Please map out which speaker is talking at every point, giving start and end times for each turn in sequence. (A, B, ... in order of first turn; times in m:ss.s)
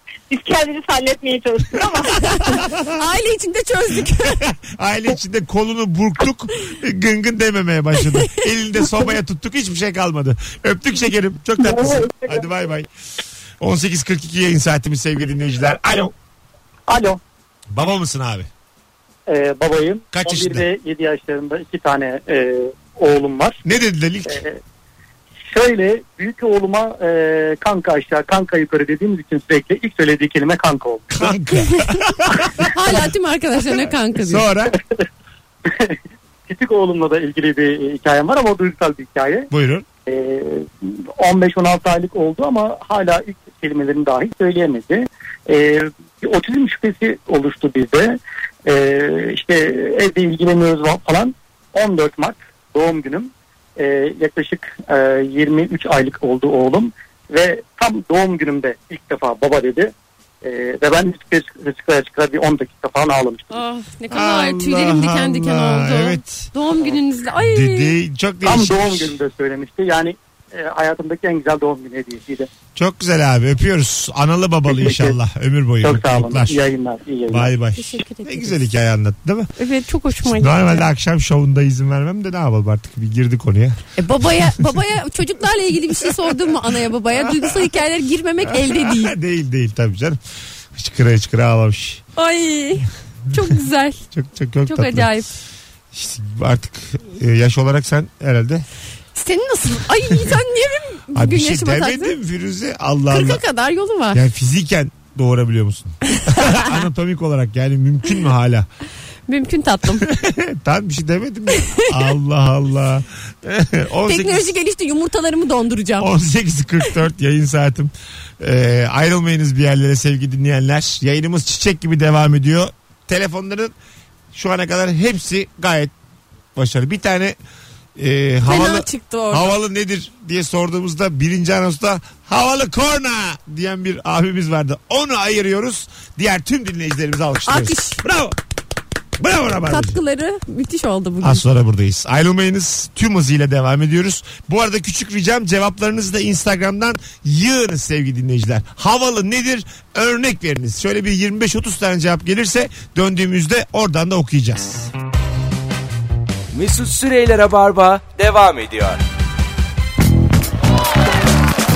0:00.3-0:02.6 A
0:02.3-0:03.0 B
0:02.4-0:04.4 C
0:04.2-0:12.9 B
0:11.6-0:12.3 A
0:13.6-0:16.1 B
0:16.9-0:17.2 D
0:17.7-0:18.5 B
0:19.3-0:23.6 D
0:20.1-0:20.6 B
0:23.6-0:24.4 B
0:24.3-0:24.6 D
0:25.5-0:31.3 D
0:31.1-0:33.0 B
0:32.6-0:34.5 C
0:34.2-0:34.7 B
0:35.6-0:35.9 D
0:36.5-0:39.5 D
0:39.5-0:39.8 B
0:40.0-1:03.6 D
1:03.5-1:07.9 C
1:04.1-1:06.5 B
1:07.4-1:09.1 B
1:08.4-1:12.5 D
1:12.7-1:16.6 B
1:14.7-1:15.2 D
1:15.8-1:17.5 D
1:17.3-1:19.5 B
1:17.7-1:18.6 C
1:19.6-1:20.8 C
1:20.2-1:23.8 B
1:24.0-1:29.1 C
1:27.2-1:27.6 B
1:28.5-1:30.2 B
1:30.7-1:32.0 B
1:32.2-1:34.0 C
1:34.1-1:35.1 B
1:34.6-1:35.3 C
1:35.9-1:38.6 B
1:39.2-1:42.1 C
1:41.1-1:43.4 B
1:43.1-1:44.2 C
1:44.1-1:48.7 B
1:46.2-1:46.7 C
1:49.3-1:50.1 C
1:50.0-1:54.5 B
1:51.5-1:51.9 C
1:54.0-1:56.1 C
1:56.0-2:03.7 B
2:04.3-2:05.9 B
2:06.5-2:07.4 B
2:08.0-2:18.4 B
2:08.4-2:09.5 C
2:17.4-2:18.0 C
2:19.2-2:20.0 B
2:19.6-2:21.4 C
2:21.2-2:34.9 B
2:36.5-2:39.0 E